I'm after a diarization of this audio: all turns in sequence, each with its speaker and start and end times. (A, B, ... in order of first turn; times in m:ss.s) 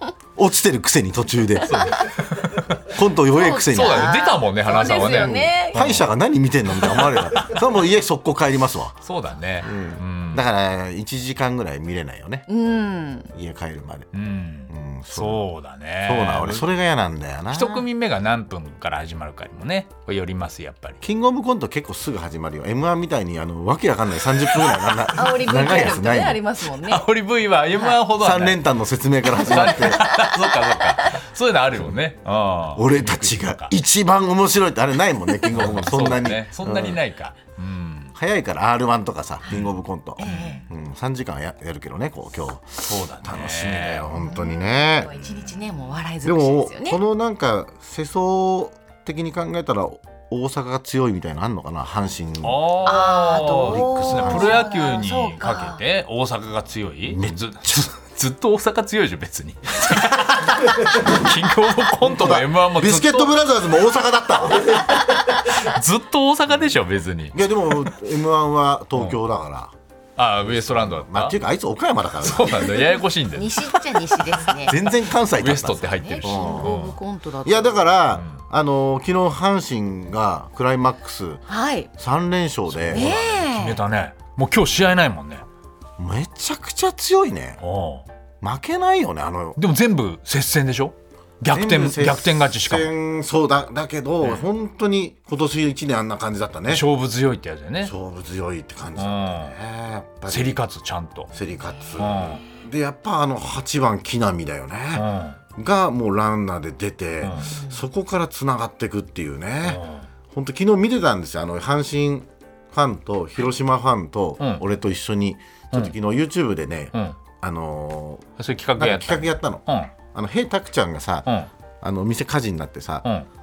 0:00.4-0:02.1 A
0:01.7-0:02.9 B
0:02.8-0:04.2 A
0:03.3-0:05.9 C
0:03.5-0:06.0 B
0:05.0-0:09.0 A
0:06.8-0:07.5 B
0:09.0-0:10.4 B
0:09.6-0:12.5 A
0:12.5-0:13.3 C
0:13.3-0:14.1 A
0:14.1-0:16.7 B
0:14.7-0:15.4 A
0:16.0-0:17.9 A
0:17.5-0:21.0 B
0:21.0-0:26.4 A
0:25.1-0:27.0 C
0:26.7-0:28.6 B
0:27.7-0:28.0 C
0:28.2-0:30.1 A
0:29.3-0:33.7 B
0:29.4-0:31.2 C
0:32.8-0:37.0 A
0:35.5-0:38.1 B
0:38.2-0:45.1 A
0:40.2-0:40.6 C
0:40.2-0:40.6 B
0:42.9-0:44.2 B
0:44.2-0:47.0 C
0:45.2-0:45.6 B
0:46.2-0:53.0 A
0:52.4-1:03.3 B
0:52.8-0:55.8 C
0:53.6-0:54.7 A
0:57.1-0:57.9 A
1:00.8-1:01.2 A
1:02.0-1:04.9 A
1:05.3-1:07.9 B
1:07.3-1:09.7 A
1:10.2-1:11.4 B
1:10.4-1:12.8 A
1:12.2-1:17.0 B
1:12.7-1:14.8 C
1:14.6-1:16.8 A
1:15.8-1:17.9 C
1:17.4-1:21.4 A
1:18.1-1:18.4 B
1:21.5-1:21.9 C
1:22.0-1:23.2 A
1:22.7-1:25.4 B
1:22.9-1:23.8 C
1:26.0-1:27.6 A
1:27.6-1:28.1 B
1:28.4-1:29.6 A
1:29.6-1:32.9 B
1:31.5-1:36.9 A
1:36.7-1:37.9 B
1:37.8-1:40.6 A
1:39.0-1:39.6 B
1:40.3-1:41.3 B
1:41.3-1:58.3 A
1:41.6-1:41.9 C
1:42.0-1:42.4 B
1:44.9-1:45.4 B
1:47.2-1:47.5 B
1:47.4-1:47.8 C
1:49.6-1:50.0 B
1:58.4-1:59.9 B
1:58.8-2:01.3 A
2:01.8-2:03.1 A